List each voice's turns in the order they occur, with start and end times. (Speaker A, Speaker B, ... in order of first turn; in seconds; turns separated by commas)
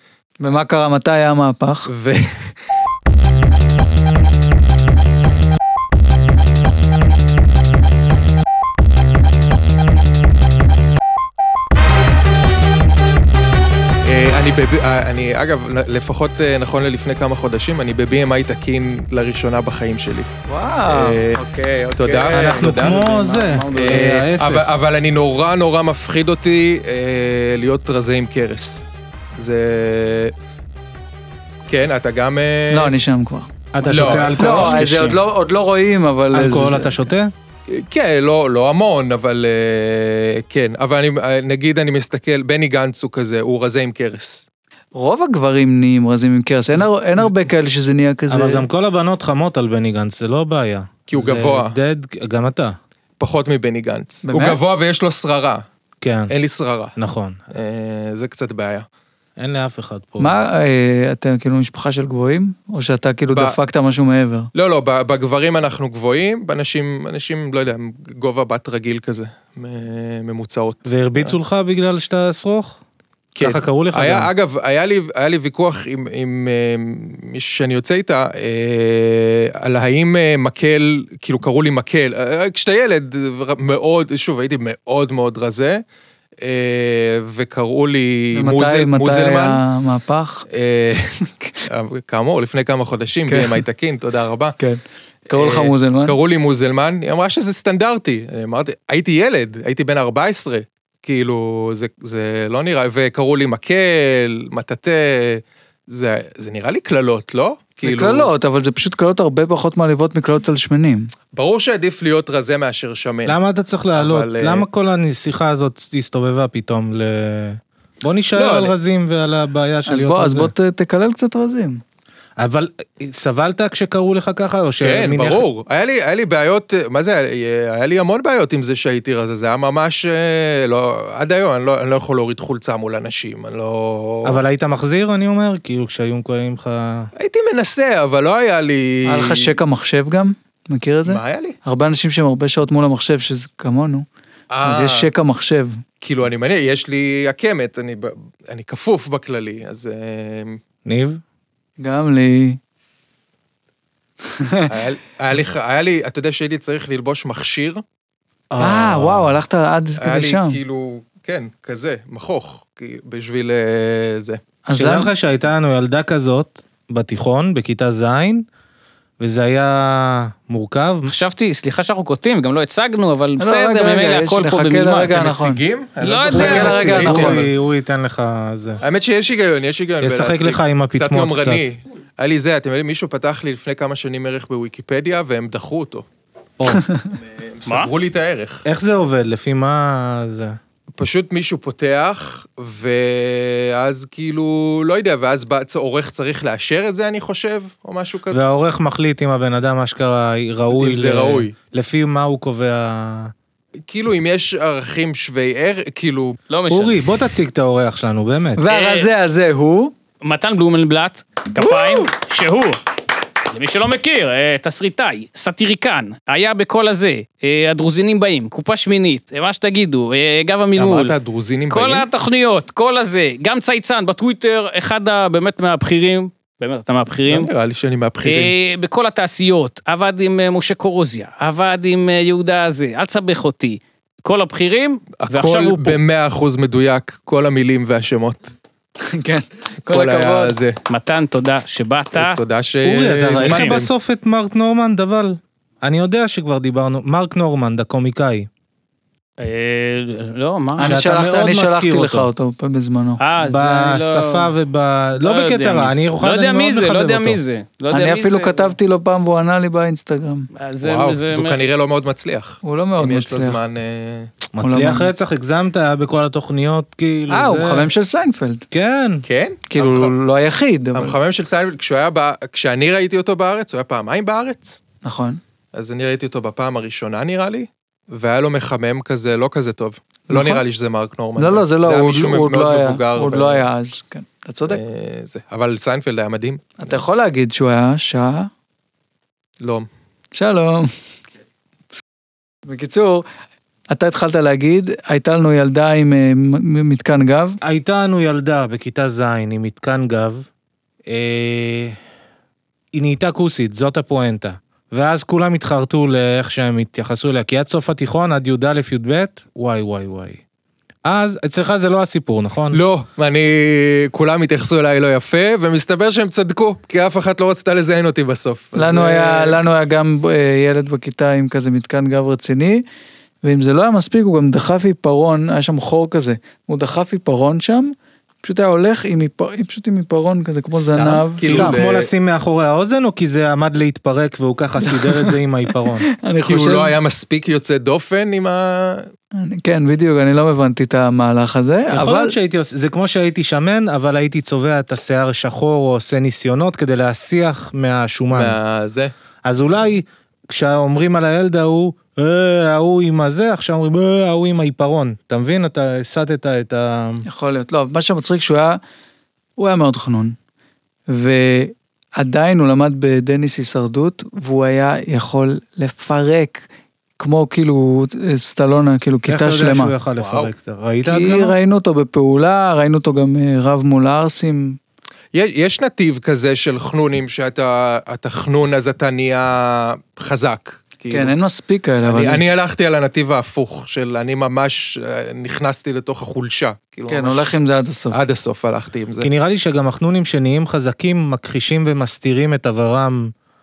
Speaker A: 0.4-1.9, Speaker B: 1.9-2.5, Speaker B: 14.0-20.3, Speaker A: 20.5-22.6, Speaker B: 20.9-21.4, Speaker B: 22.0-23.0, Speaker C: 22.3-24.6, Speaker D: 22.7-23.6, Speaker B: 23.7-28.8, Speaker B: 29.4-30.3, Speaker B: 31.7-32.9, Speaker A: 32.7-37.0, Speaker C: 33.7-35.1, Speaker B: 33.9-34.9, Speaker C: 36.3-37.3, Speaker B: 37.7-44.4, Speaker A: 44.9-48.6, Speaker C: 46.7-47.3, Speaker C: 48.3-52.7, Speaker B: 51.1-51.7, Speaker B: 53.2-55.6, Speaker A: 54.3-54.6, Speaker C: 56.0-56.3, Speaker B: 56.3-56.9, Speaker C: 57.0-57.4, Speaker B: 57.5-58.9, Speaker C: 59.4-60.4, Speaker A: 60.2-64.5, Speaker B: 64.5-71.3, Speaker C: 70.8-72.8, Speaker B: 73.3-85.8, Speaker C: 73.4-74.3, Speaker B: 86.4-89.6, Speaker A: 88.3-90.4, Speaker B: 90.5-94.5, Speaker A: 93.3-93.6, Speaker A: 94.6-96.2, Speaker B: 95.3-108.3, Speaker A: 107.8-111.1, Speaker B: 111.3-113.4, Speaker C: 113.2-120.5, Speaker B: 113.9-114.7, Speaker B: 118.3-118.7, Speaker A: 119.9-121.8, Speaker C: 122.4-125.4, Speaker B: 124.8-134.4, Speaker C: 134.2-137.1, Speaker B: 137.2-139.5, Speaker A: 139.1-144.1, Speaker B: 141.1-141.6, Speaker B: 144.5-145.1, Speaker A: 144.6-145.8, Speaker B: 146.0-150.6, Speaker C: 150.8-151.2, Speaker A: 151.8-152.6, Speaker A: 154.3-154.7, Speaker B: 154.7-157.8, Speaker C: 158.5-159.4, Speaker A: 158.6-160.6, Speaker B: 160.0-164.4, Speaker A: 164.7-165.1, Speaker C: 164.7-168.4, Speaker C: 169.2-171.1, Speaker D: 171.1-175.3, Speaker A: 173.4-175.6, Speaker B: 175.1-177.5, Speaker D: 176.0-177.0, Speaker A: 176.3-177.4, Speaker C: 176.3-178.8, Speaker B: 178.8-186.0, Speaker C: 180.0-181.6, Speaker B: 187.2-188.6, Speaker C: 188.6-190.6, Speaker B: 191.0-198.4, Speaker C: 198.3-203.3, Speaker B: 200.7-201.5, Speaker B: 203.9-206.4, Speaker D: 206.5-207.0, Speaker C: 206.7-208.6, Speaker A: 208.6-209.9, Speaker D: 208.7-209.1, Speaker D: 210.2-212.8, Speaker A: 211.6-212.1, Speaker D: 213.5-221.1, Speaker B: 220.8-222.1, Speaker D: 221.7-227.5, Speaker B: 227.3-228.5, Speaker D: 228.2-236.0, Speaker B: 235.2-238.5, Speaker A: 239.1-240.6, Speaker B: 239.8-240.8, Speaker D: 240.9-242.4, Speaker B: 242.1-243.9, Speaker C: 242.8-248.5, Speaker D: 243.2-243.8, Speaker D: 249.4-251.0, Speaker A: 250.8-253.2, Speaker C: 250.8-252.3, Speaker D: 253.2-254.5, Speaker C: 253.4-257.4, Speaker D: 255.2-258.7, Speaker A: 257.9-260.5, Speaker D: 260.6-261.6, Speaker B: 260.8-264.3, Speaker A: 262.6-263.6, Speaker C: 264.5-267.9, Speaker A: 264.6-265.1, Speaker A: 267.3-268.6, Speaker C: 268.7-269.2, Speaker B: 269.2-270.1, Speaker A: 269.7-271.1, Speaker B: 270.9-274.8, Speaker A: 275.0-275.4, Speaker B: 275.7-283.6, Speaker A: 280.3-280.6, Speaker A: 281.4-284.8, Speaker B: 284.7-287.0, Speaker A: 286.8-288.5, Speaker B: 289.6-289.9, Speaker A: 290.3-290.9, Speaker A: 292.7-293.2, Speaker A: 293.9-297.6, Speaker C: 297.6-300.4, Speaker C: 301.1-301.9, Speaker C: 302.9-310.4, Speaker C: 311.0-312.8, Speaker B: 312.7-319.6, Speaker A: 318.7-322.8, Speaker A: 323.4-331.8, Speaker B: 330.7-332.1, Speaker C: 331.4-336.1, Speaker A: 334.9-335.3, Speaker A: 336.2-336.9, Speaker B: 336.4-339.1, Speaker A: 339.4-342.3, Speaker C: 341.9-348.6, Speaker B: 348.3-349.1, Speaker C: 349.4-357.2, Speaker A: 357.3-358.8, Speaker A: 359.6-360.4, Speaker A: 361.1-366.7, Speaker A: 367.2-369.9, Speaker C: 369.3-371.6, Speaker B: 370.2-370.5, Speaker A: 371.0-374.8, Speaker B: 375.3-381.3, Speaker A: 381.1-382.4, Speaker B: 382.0-387.5, Speaker A: 387.1-388.2, Speaker B: 388.1-389.3, Speaker C: 389.2-393.3